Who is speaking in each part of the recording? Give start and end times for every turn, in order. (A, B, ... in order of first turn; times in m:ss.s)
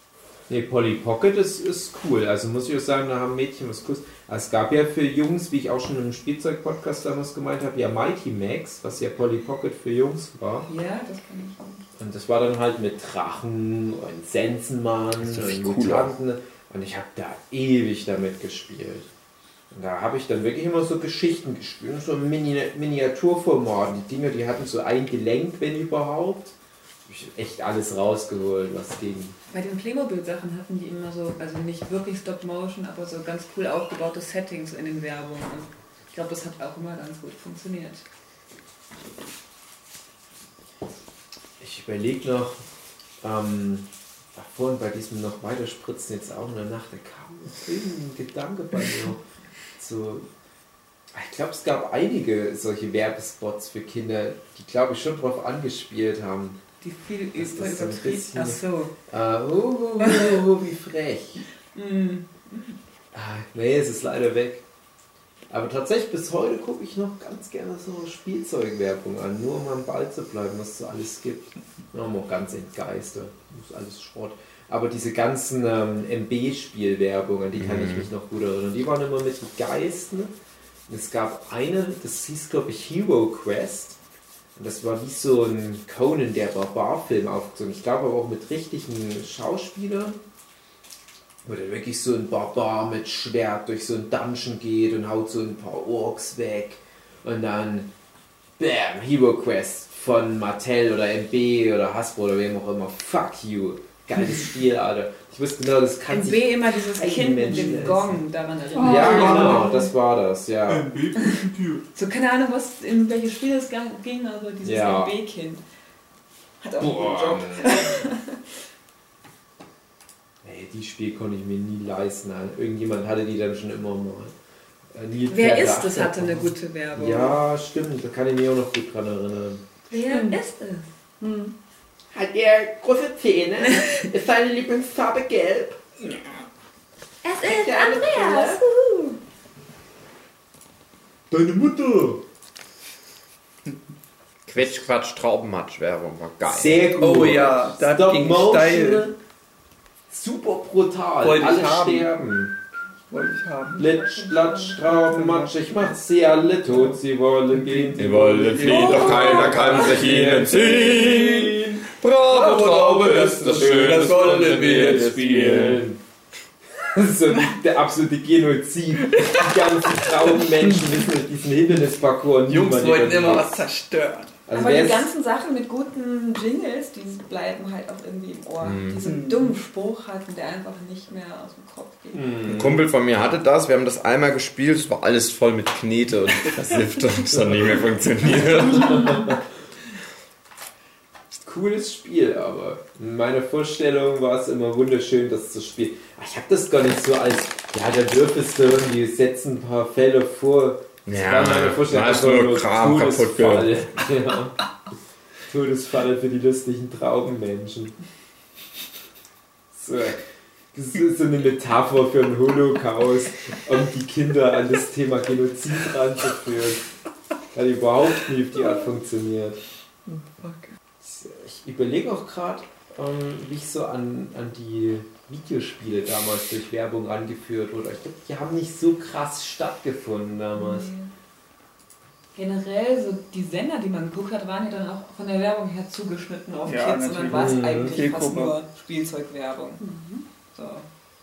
0:00.5-0:10.7 A
0:10.7-0:11.8 B
0:12.0-0:19.1 A
0:15.2-0:16.1 C
0:19.7-0:26.5 A
0:27.1-0:29.4 A
0:29.5-0:38.0 B
0:41.6-0:42.6 A
0:43.2-0:49.2 A
0:49.8-0:50.3 A
0:51.1-0:56.6 A
0:56.8-0:58.9 B
0:57.4-1:01.4 A
1:00.0-1:00.4 B
1:01.7-1:02.8 B
1:03.1-1:04.6 A
1:05.5-1:20.3 A
1:17.5-1:18.1 C
1:20.9-1:24.0 A
1:24.6-1:30.2 A
1:31.4-1:37.9 A
1:38.6-1:48.2 A
1:46.1-1:49.9 B
1:48.7-1:49.7 D
1:48.8-1:51.2 A
1:50.9-1:51.8 E
1:51.2-1:55.6 B
1:54.6-1:55.1 A
1:56.6-1:58.4 B
1:56.8-1:58.0 A
2:00.4-2:04.3 A
2:04.9-2:09.6 A
2:05.3-2:07.4 B
2:09.9-2:10.9 B
2:10.1-2:10.4 D
2:11.2-2:11.5 D
2:12.1-2:15.8 A
2:13.6-2:14.1 B
2:17.2-2:19.2 B
2:17.4-2:18.6 A
2:21.3-2:22.2 A
2:24.5-2:26.8 C
2:26.4-2:29.1 A
2:27.0-2:29.1 E
2:30.1-2:32.5 A
2:31.2-2:32.1 E
2:33.1-2:34.0 E
2:33.8-2:46.0 A
2:34.2-2:34.6 D
2:34.7-2:35.9 E
2:36.6-2:37.0 E
2:37.5-2:41.2 E
2:37.9-2:45.8 C
2:43.3-2:45.1 E
2:46.9-2:53.6 A
2:49.0-2:51.0 E
2:52.4-2:54.3 E
2:54.5-2:55.1 A
2:54.5-3:02.3 B
2:58.6-2:59.0 C
2:59.0-2:59.6 E
3:02.1-3:02.8 A
3:02.4-3:09.1 C
3:07.3-3:09.4 A
3:11.4-3:24.5 A
3:21.0-3:23.8 C
3:25.5-3:27.9 A
3:29.7-3:30.2 A
3:30.7-3:36.8 A
3:37.5-3:39.6 A
3:40.0-3:40.7 E
3:41.0-3:50.9 A
3:50.6-3:51.1 B
3:52.4-3:59.8 B
3:56.7-3:58.5 E
3:57.3-3:57.9 A
3:59.8-4:00.2 D
4:00.5-4:00.8 B